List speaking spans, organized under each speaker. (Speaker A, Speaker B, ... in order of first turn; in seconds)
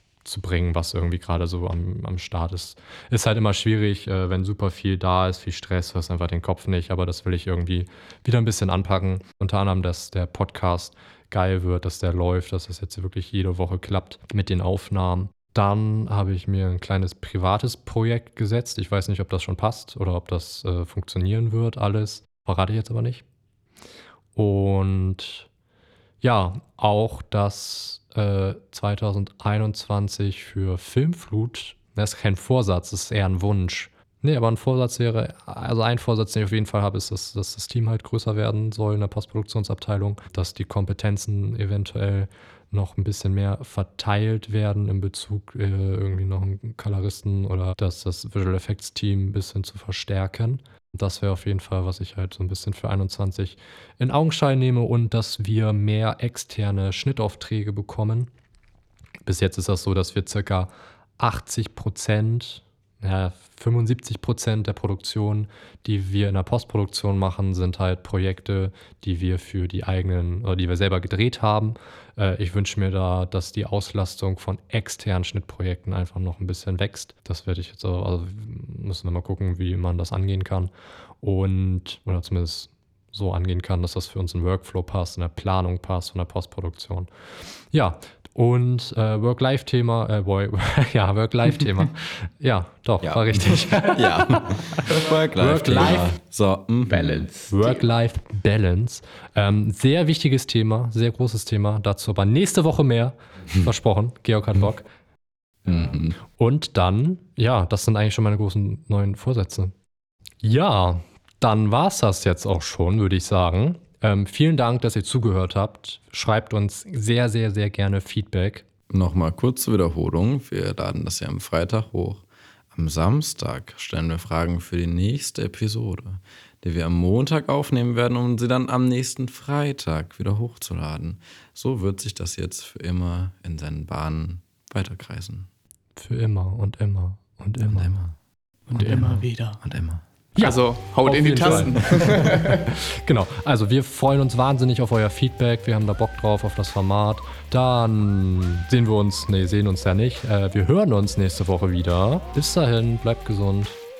Speaker A: 0.2-23.2, 24.3-25.5, 26.2-58.3, 59.2-80.7, 81.2-87.1, 87.7-96.1, 97.5-104.9, 105.7-109.7, 110.4-118.6, 135.9-138.0, 138.8-139.3, 140.3-153.8
Speaker B: 93.0-97.3, 105.7-106.2, 118.9-135.5, 137.7-138.2, 139.6-140.0
Speaker C: 138.7-139.6, 140.4-142.7